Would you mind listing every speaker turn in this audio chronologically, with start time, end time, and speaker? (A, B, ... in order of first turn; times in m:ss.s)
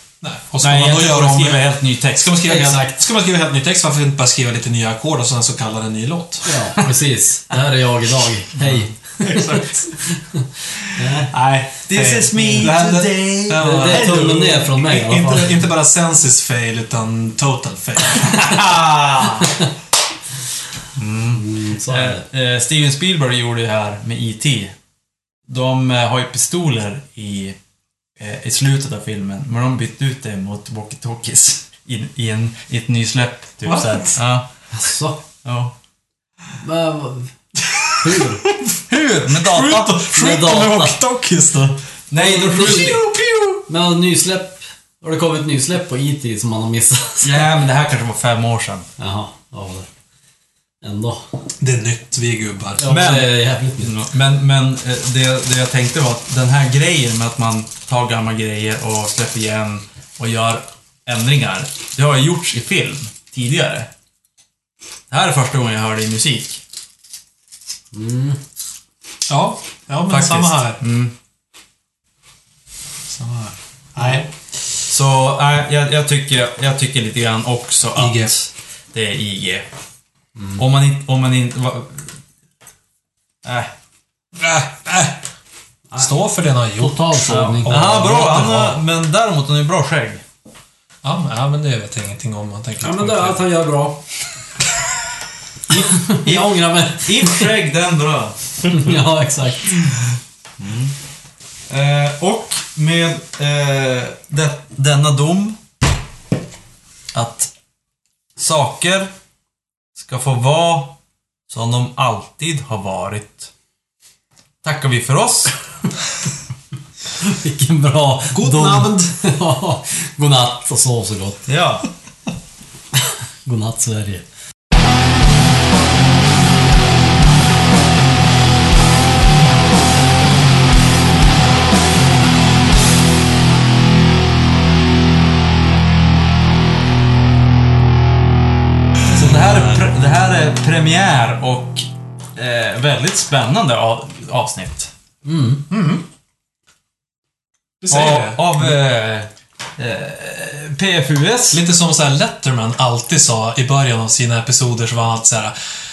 0:00.2-0:06.7 A
0:00.6-0:02.8 B
0:02.5-0:02.9 C
0:06.4-0:10.4 C
0:09.2-0:10.0 A
0:10.7-0:19.5 A
0:10.9-0:11.3 C
0:11.9-0:14.6 B
0:12.4-0:12.7 C
0:13.6-0:15.5 C
0:20.9-0:24.7 B
0:21.3-0:22.2 C
0:25.5-0:27.6 B
0:28.2-0:34.9 B
0:33.6-0:34.2 A
0:34.7-0:35.2 C
0:35.4-0:35.7 B
0:36.6-0:37.4 C
0:37.7-0:38.8 A
0:38.0-0:38.4 C
0:38.9-0:41.0 B
0:39.4-0:41.7 A
0:40.1-0:41.0 C
0:42.1-0:43.2 B
0:42.2-0:43.0 C
0:42.6-0:43.6 A
0:43.7-0:47.5 C
0:47.2-0:48.9 B
0:49.0-0:49.9 C
0:50.8-0:51.4 C
0:51.6-0:53.0 A
0:52.8-0:54.0 C
0:52.9-1:03.9 B
1:05.1-1:06.6 B
1:07.9-1:08.4 C
1:09.3-1:10.8 A
1:10.1-1:11.1 B
1:13.1-1:14.2 A
1:14.0-1:14.2 B
1:14.8-1:19.7 B
1:17.9-1:18.3 A
1:20.4-1:20.6 C
1:20.6-1:22.2 B
1:23.4-1:23.7 B
1:24.4-1:25.3 A
1:26.0-1:28.8 A
1:26.8-1:27.7 C
1:27.3-1:30.2 B
1:31.0-1:33.4 A
1:32.8-1:34.0 C
1:35.7-1:38.9 B
1:35.7-1:37.5 C
1:38.7-1:39.8 C
1:40.6-1:40.9 B
1:41.7-1:45.6 B
1:47.1-1:47.5 B
1:48.4-1:49.1 B
1:50.0-1:51.0 B
1:51.5-1:53.5 B
1:54.6-1:55.5 B
1:57.1-2:01.4 C
1:58.3-1:59.2 A
2:01.5-2:01.9 B
2:03.0-2:04.2 C
2:19.1-2:24.9 B
2:25.2-2:25.6 C
2:25.7-2:26.0 A
2:27.8-2:28.7 A
2:27.9-2:31.6 B
2:31.5-2:35.5 A